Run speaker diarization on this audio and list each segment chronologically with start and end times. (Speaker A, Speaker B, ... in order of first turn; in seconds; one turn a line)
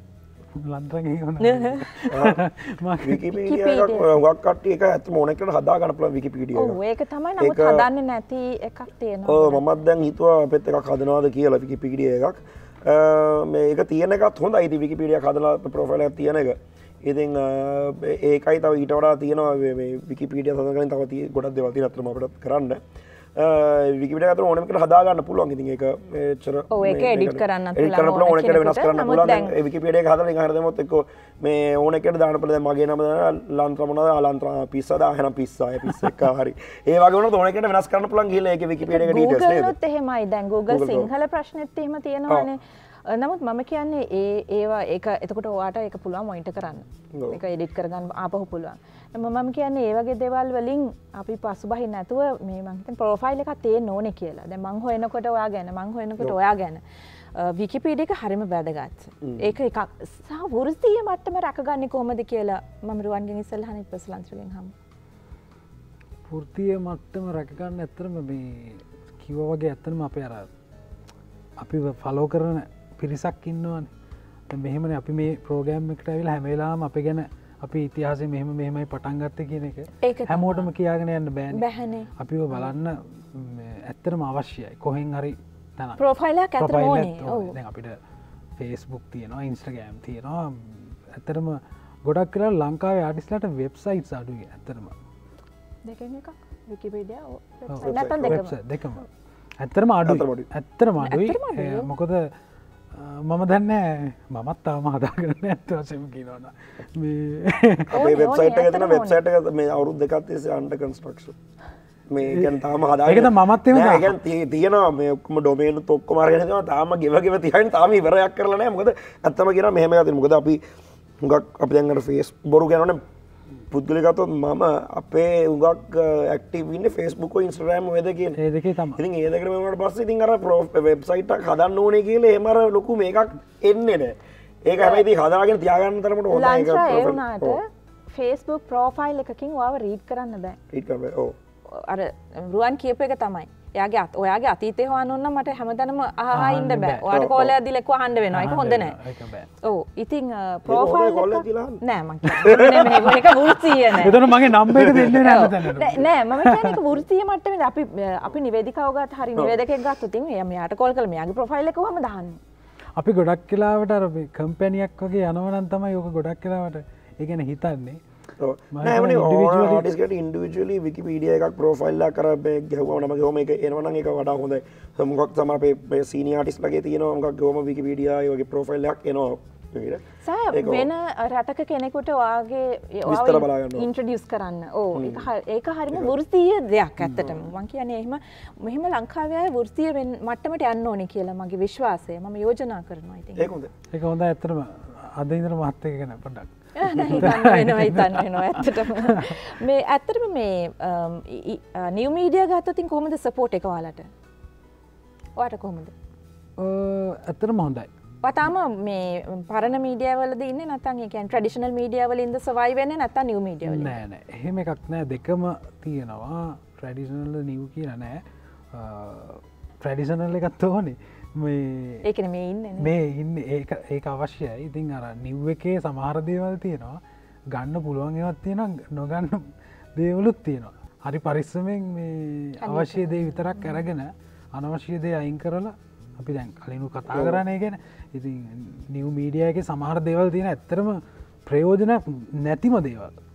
Speaker A: 0.6-3.2
Speaker B: 1.4-2.0
Speaker C: 2.1-2.4
Speaker C: 3.0-6.8
Speaker B: 3.3-4.1
Speaker B: 6.5-9.7
Speaker C: 7.4-7.9
Speaker C: 9.3-22.8
Speaker C: 23.4-39.7
Speaker B: 26.7-29.6
Speaker B: 38.8-56.8
Speaker C: 40.7-41.1
Speaker C: 47.1-47.4
Speaker B: 57.3-64.7
Speaker C: 59.2-59.5
Speaker A: 66.3-70.5
Speaker A: 71.6-73.9
Speaker A: 74.5-81.7
Speaker B: 80.0-80.7
Speaker B: 81.5-82.7
Speaker A: 82.2-86.0
Speaker B: 86.0-87.6
Speaker A: 86.6-88.0
Speaker A: 88.6-94.9
Speaker B: 95.8-98.6
Speaker A: 97.7-99.1
Speaker C: 97.8-98.4
Speaker A: 99.6-102.3
Speaker C: 100.1-100.5
Speaker B: 101.0-101.9
Speaker A: 102.9-107.9
Speaker C: 107.9-111.4
Speaker B: 107.9-109.2
Speaker C: 112.1-120.6
Speaker A: 112.2-114.2
Speaker C: 121.2-123.0
Speaker C: 123.7-128.4
Speaker A: 128.4-129.0
Speaker C: 128.9-137.6
Speaker B: 134.8-135.1
Speaker B: 136.3-140.6
Speaker C: 140.7-141.4
Speaker B: 141.7-149.0
Speaker A: 146.3-147.0
Speaker C: 147.1-147.6
Speaker A: 148.3-149.5
Speaker B: 149.6-154.2
Speaker C: 150.7-151.8
Speaker C: 152.4-153.1
Speaker A: 153.9-156.8
Speaker C: 154.7-155.3
Speaker B: 155.2-162.4
Speaker A: 163.0-168.0
Speaker C: 168.4-180.9
Speaker A: 168.7-169.9
Speaker B: 180.2-193.6
Speaker C: 183.1-183.9
Speaker C: 184.9-185.3
Speaker C: 193.4-193.7
Speaker A: 193.9-199.4
Speaker B: 196.8-204.1
Speaker B: 205.4-205.9
Speaker A: 206.6-207.9
Speaker B: 208.2-214.0
Speaker A: 213.7-222.0
Speaker B: 222.0-222.9
Speaker A: 222.8-227.0
Speaker A: 227.5-243.2
Speaker B: 232.6-233.8
Speaker C: 237.1-237.4